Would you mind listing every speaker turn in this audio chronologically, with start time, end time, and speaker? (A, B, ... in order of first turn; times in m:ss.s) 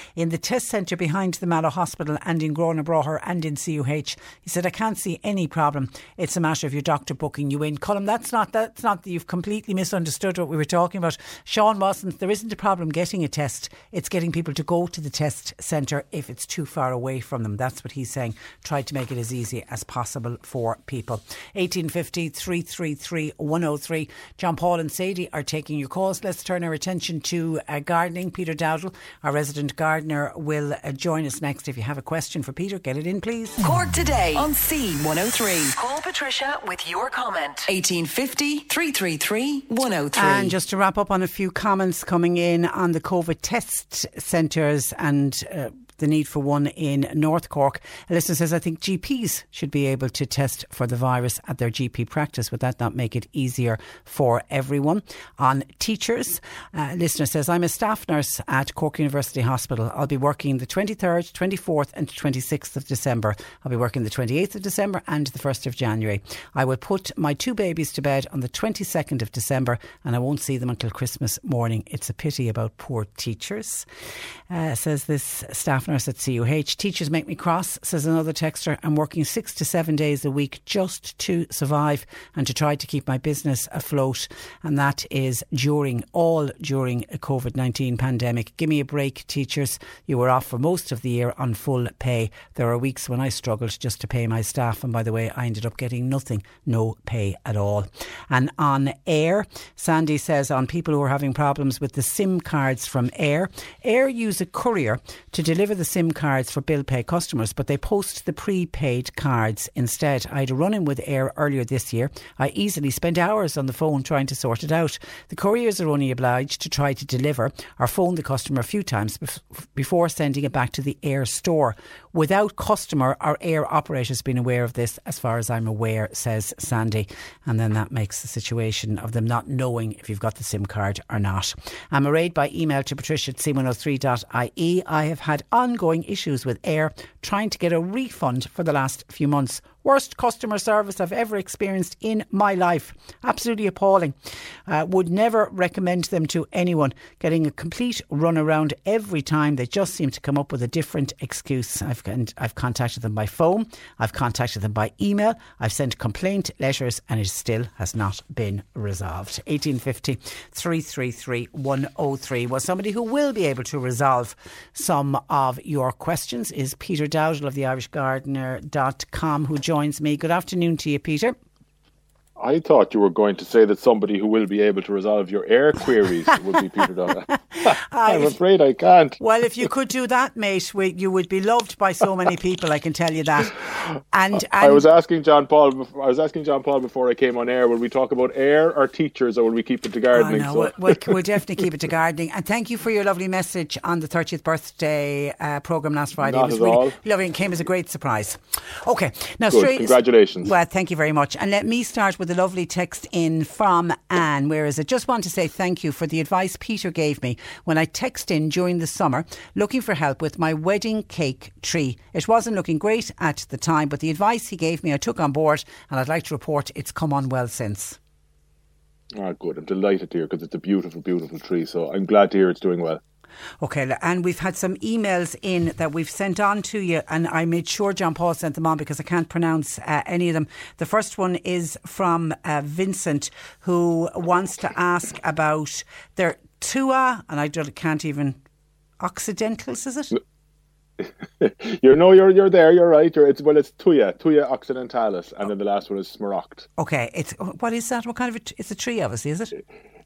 0:00.2-0:33.6 A
0:33.6-0:40.6 B
0:40.1-1:13.9 A
1:14.5-2:24.2 A
2:24.7-2:51.4 A
2:52.4-2:59.2 C
2:57.3-2:58.4 A
2:59.2-3:04.9 A
3:04.4-3:11.2 C
3:10.1-3:38.0 A
3:16.2-3:17.0 C
3:19.5-3:20.5 C
3:39.2-3:43.0 C
3:43.6-3:58.4 A
3:59.0-4:00.2 A
4:01.0-4:06.7 C
4:06.8-4:09.5 A